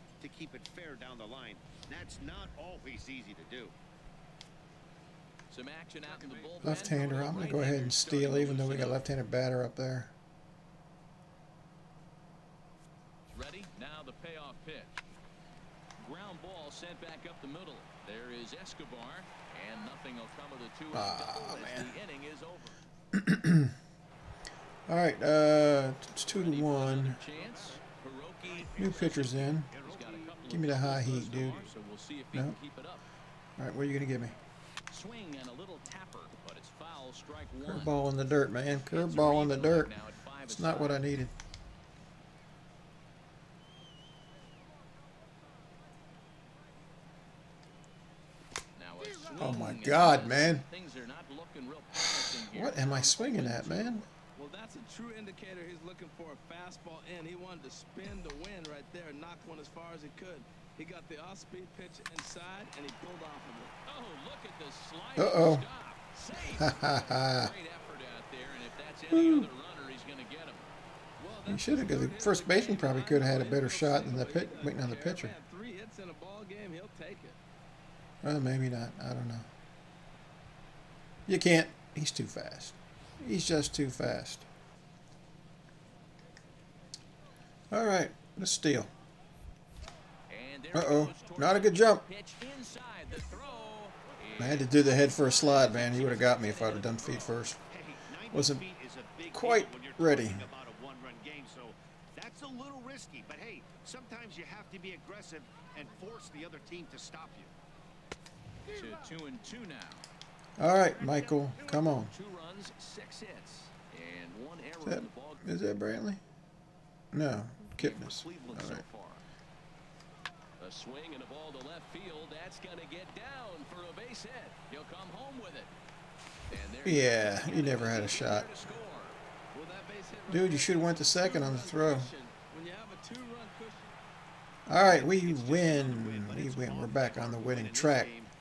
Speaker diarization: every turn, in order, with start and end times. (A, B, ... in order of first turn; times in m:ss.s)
0:02.7-0:03.6 A
0:05.5-0:09.0 B
0:06.6-0:10.1 C
0:13.3-0:14.9 B
0:16.0-0:22.7 B
0:20.9-0:22.0 C
0:23.1-0:23.7 C
0:24.9-0:27.3 C
0:26.5-0:28.7 B
0:28.8-0:29.7 C
0:29.8-0:30.7 B
0:30.5-0:31.7 C
0:31.6-0:33.0 B
0:32.3-0:32.6 C
0:33.6-0:34.4 C
0:34.9-0:37.6 B
0:37.6-0:39.9 C
0:38.9-0:41.0 B
0:40.5-0:41.3 C
0:48.8-0:53.8 B
0:49.4-0:50.6 C
0:51.9-0:54.1 C
0:54.4-1:03.8 D
1:03.9-1:10.7 B
1:05.2-1:05.6 C
1:06.4-1:07.5 C
1:09.1-1:09.5 C
1:11.2-1:17.4 D
1:11.5-1:15.4 C
1:18.2-1:19.5 C
1:21.3-1:24.5 C
1:27.7-1:28.9 C
1:30.3-1:34.5 B
1:30.7-1:32.1 C
1:34.4-1:37.6 C
1:35.8-1:36.7 B
1:38.3-1:38.7 C
1:39.3-1:40.5 C
1:40.8-1:41.7 A
1:42.3-1:47.5 A
1:48.7-1:50.0 B
1:50.6-1:52.1 C
1:52.1-1:55.1 B
1:54.8-1:56.2 C
1:57.1-1:58.8 C
1:57.8-1:59.2 B
2:00.6-2:05.7 B
2:06.5-2:09.2 B
2:06.8-2:08.6 C
2:09.5-2:13.9 D
2:10.3-2:12.1 C
2:14.7-2:18.2 C